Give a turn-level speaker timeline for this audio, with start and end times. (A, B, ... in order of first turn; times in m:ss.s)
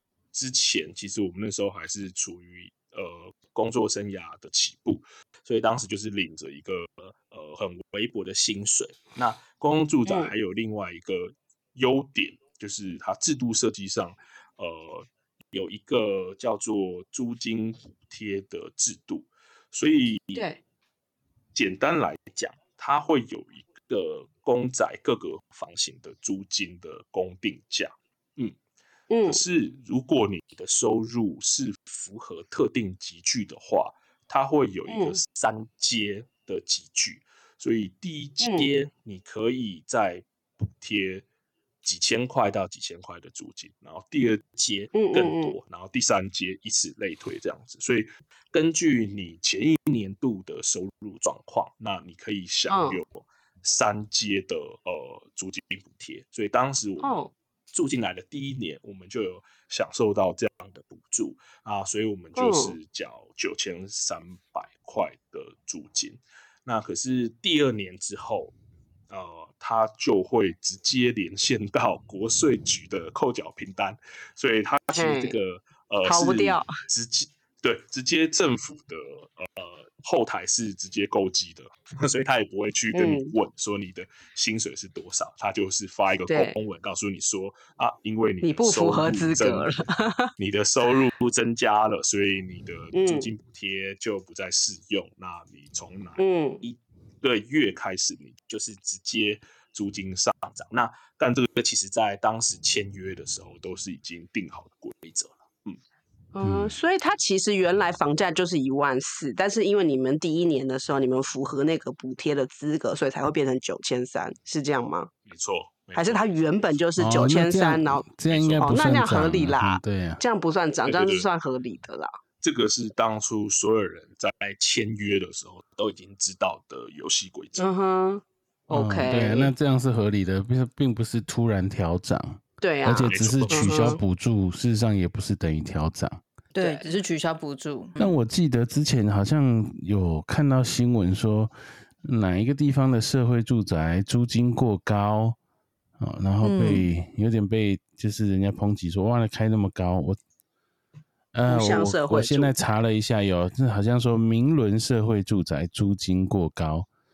0:00.3-0:20.5 A
0:10.0-0:10.3 B
0:20.3-0:20.6 B
0:21.5-0:28.6 A
0:29.1-0:29.4 B
0:29.2-0:41.2 A
0:34.9-0:35.2 B
0:38.4-0:38.7 B
0:41.8-0:57.2 A
0:44.9-0:45.5 B
0:52.7-0:53.0 B
0:57.0-0:57.3 B
0:57.7-1:08.5 A
1:02.4-1:02.8 B
1:09.1-1:29.7 A
1:14.9-1:15.4 B
1:16.0-1:16.7 B
1:22.9-1:23.3 B
1:26.3-1:26.5 B
1:28.4-1:30.3 B
1:30.4-1:45.8 A
1:32.9-1:33.3 B
1:36.2-1:36.6 B
1:46.3-1:55.1 B
1:46.4-1:46.8 C
1:55.3-1:56.3 A
1:55.9-1:58.0 B
1:57.0-2:00.2 C
1:58.3-1:58.7 A
1:58.6-2:02.1 B
2:00.8-2:01.3 A
2:02.4-2:07.6 A
2:07.6-2:09.5 B
2:08.7-2:16.2 C
2:12.6-2:14.0 B
2:13.0-2:14.0 A
2:16.5-2:16.9 B
2:16.6-2:18.1 D
2:18.0-2:25.4 C
2:26.0-2:30.2 C
2:26.4-2:26.9 D
2:31.3-2:36.9 C
2:31.5-2:32.5 B